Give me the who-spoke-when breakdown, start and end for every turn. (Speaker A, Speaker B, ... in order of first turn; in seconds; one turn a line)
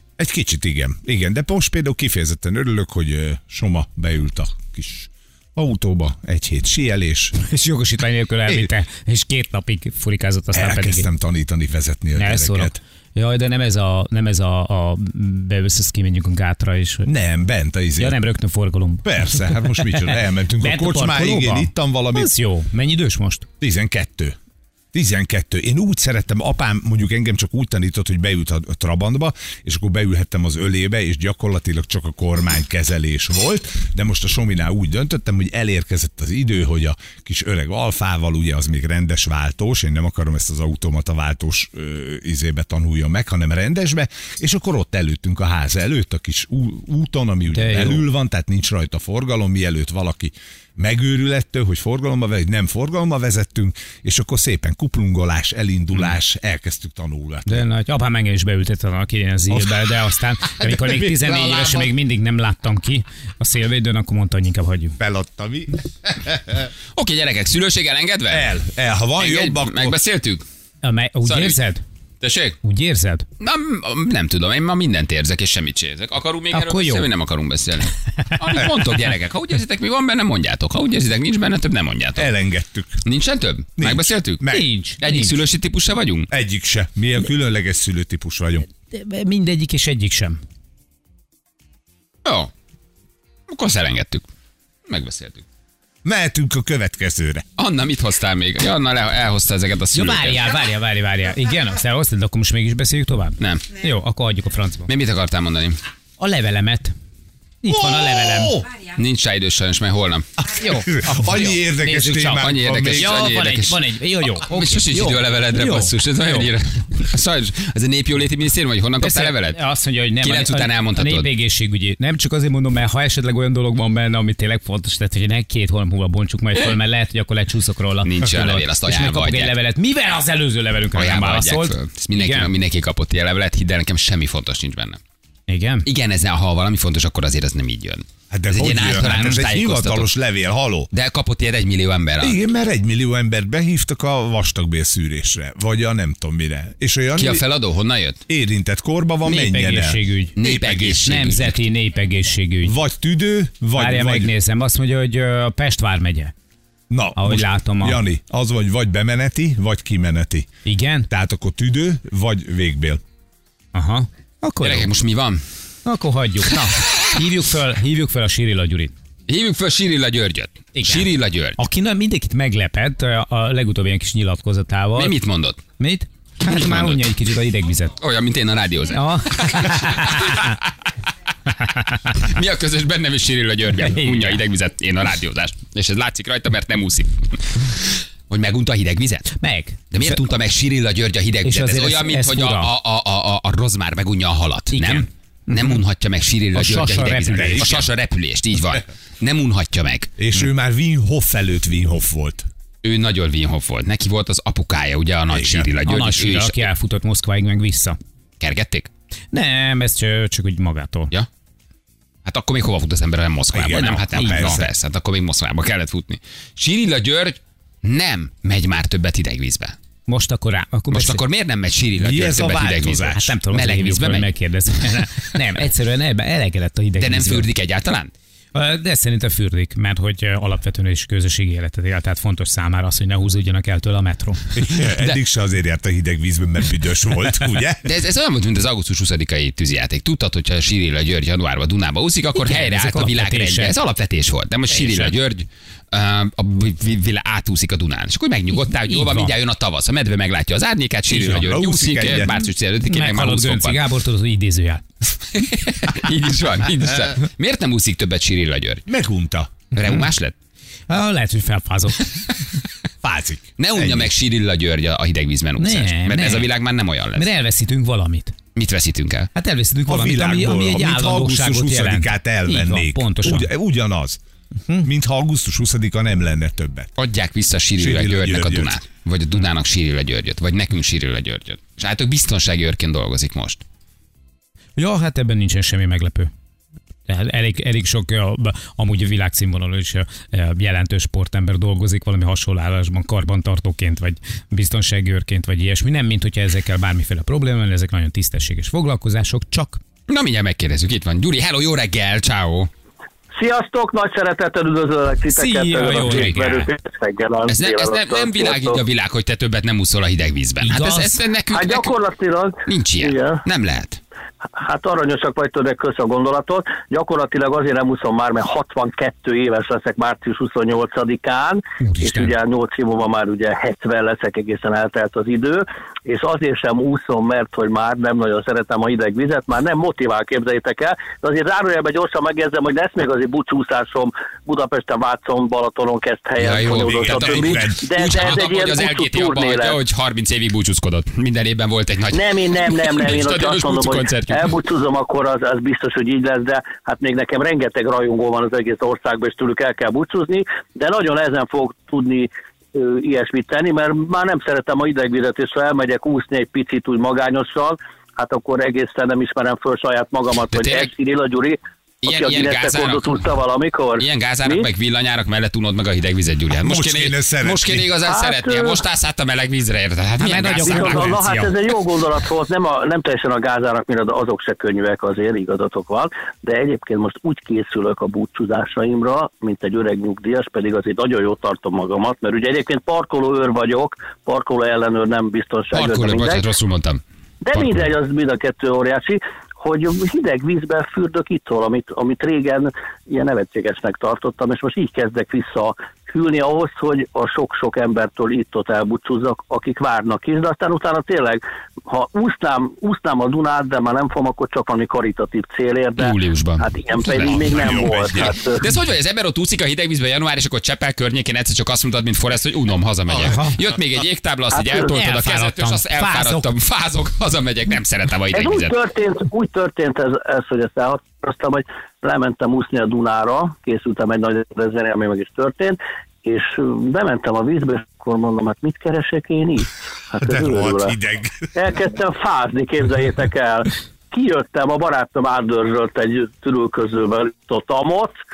Speaker A: 0.2-7.3
Speaker B: 7.4-11.1
Speaker A: 10.5-12.8
Speaker B: 12.2-17.1
Speaker A: 17.0-18.2
Speaker B: 18.0-23.5
Speaker A: 19.0-22.3
Speaker A: 23.6-24.4
Speaker A: 24.9-57.6
Speaker B: 47.5-48.0
Speaker B: 57.5-65.0
Speaker A: 60.6-61.9
Speaker A: 65.0-66.7
Speaker C: 66.9-70.4
Speaker A: 68.3-70.0
Speaker B: 70.8-71.8
Speaker C: 71.2-71.6
Speaker C: 72.2-72.6
Speaker B: 72.6-73.2
Speaker C: 73.4-82.3
Speaker B: 76.5-77.1
Speaker B: 78.2-78.7
Speaker A: 82.2-83.0
Speaker C: 83.0-86.3
Speaker A: 83.8-84.7
Speaker B: 84.4-85.4
Speaker A: 86.3-88.7
Speaker B: 88.8-90.4
Speaker C: 92.2-92.5
Speaker C: 93.5-94.3
Speaker C: 94.9-95.4
Speaker A: 96.0-97.4
Speaker C: 97.6-100.4
Speaker B: 99.9-104.9
Speaker C: 103.4-103.7
Speaker C: 104.8-105.8
Speaker B: 106.2-106.9
Speaker B: 107.6-108.6
Speaker A: 107.7-108.7
Speaker C: 108.7-110.3
Speaker A: 110.4-113.3
Speaker B: 110.6-116.5
Speaker C: 112.4-119.6
Speaker B: 119.0-132.5
Speaker C: 120.2-121.3
Speaker C: 128.0-129.6
Speaker C: 130.9-135.0
Speaker B: 135.5-135.9
Speaker C: 135.8-140.1
Speaker A: 138.3-140.9
Speaker B: 139.1-139.4
Speaker C: 140.9-142.4
Speaker A: 142.2-147.4
Speaker C: 147.1-148.2
Speaker A: 148.3-151.1
Speaker B: 149.2-150.4
Speaker C: 150.3-151.6
Speaker B: 151.0-152.7
Speaker A: 152.6-154.3
Speaker B: 153.7-156.3
Speaker A: 156.9-160.5
Speaker B: 157.1-158.0
Speaker B: 160.6-161.1
Speaker A: 161.1-163.0
Speaker B: 163.7-164.9
Speaker C: 164.6-165.4
Speaker B: 165.8-168.9
Speaker C: 169.3-171.6
Speaker B: 170.8-175.2
Speaker C: 174.9-175.6
Speaker B: 175.7-177.9
Speaker C: 176.5-177.0
Speaker C: 177.9-180.6
Speaker B: 178.9-180.5
Speaker B: 181.6-182.0
Speaker C: 182.1-189.3
Speaker B: 183.9-184.4
Speaker B: 189.3-190.2
Speaker C: 189.9-200.1
Speaker B: 191.4-192.7
Speaker B: 194.7-195.8
Speaker B: 196.5-197.9
Speaker A: 197.3-197.8
Speaker A: 200.2-202.4
Speaker C: 202.8-206.6
Speaker A: 205.3-205.8
Speaker B: 205.8-207.9
Speaker C: 208.4-208.9
Speaker B: 209.3-211.1
Speaker C: 212.2-219.8
Speaker A: 213.5-214.7
Speaker B: 213.7-214.6
Speaker B: 220.1-221.2
Speaker C: 220.9-225.1
Speaker A: 222.0-223.2
Speaker B: 223.1-227.5
Speaker C: 227.0-228.1
Speaker B: 228.5-234.4
Speaker A: 234.6-237.9
Speaker C: 234.7-235.2
Speaker C: 237.8-253.8
Speaker B: 242.3-243.8
Speaker B: 244.7-245.1
Speaker B: 248.7-249.3
Speaker A: 251.1-252.3
Speaker B: 252.8-254.8
Speaker C: 255.2-258.8
Speaker A: 258.9-259.5
Speaker C: 259.7-260.3
Speaker B: 260.9-262.1
Speaker A: 263.0-264.1
Speaker C: 263.6-267.3
Speaker B: 265.6-266.5
Speaker B: 267.1-268.3
Speaker C: 268.5-269.3
Speaker B: 269.4-273.5
Speaker A: 269.9-274.2
Speaker A: 274.8-276.9
Speaker C: 277.0-283.6
Speaker A: 277.8-278.8
Speaker B: 284.8-286.3
Speaker B: 287.1-299.8
Speaker C: 300.1-302.7
Speaker D: 303.3-308.8
Speaker B: 305.3-306.7
Speaker C: 307.4-311.9
Speaker B: 310.6-311.2
Speaker D: 311.5-313.4
Speaker C: 312.6-314.0
Speaker D: 314.6-339.8
Speaker B: 321.8-322.4
Speaker C: 336.4-344.6
Speaker A: 336.7-337.8
Speaker D: 342.1-364.7
Speaker C: 360.4-360.9
Speaker C: 362.0-363.4
Speaker C: 364.0-371.1
Speaker A: 366.5-367.9
Speaker D: 368.0-368.8
Speaker B: 370.2-371.6
Speaker D: 370.6-386.5
Speaker C: 385.7-387.0
Speaker D: 387.4-408.6
Speaker C: 387.5-387.9
Speaker C: 406.0-407.8
Speaker A: 407.2-408.4
Speaker C: 408.4-418.8
Speaker B: 413.2-413.6
Speaker B: 414.6-416.5
Speaker D: 418.3-430.9
Speaker A: 430.2-431.5
Speaker D: 431.5-438.1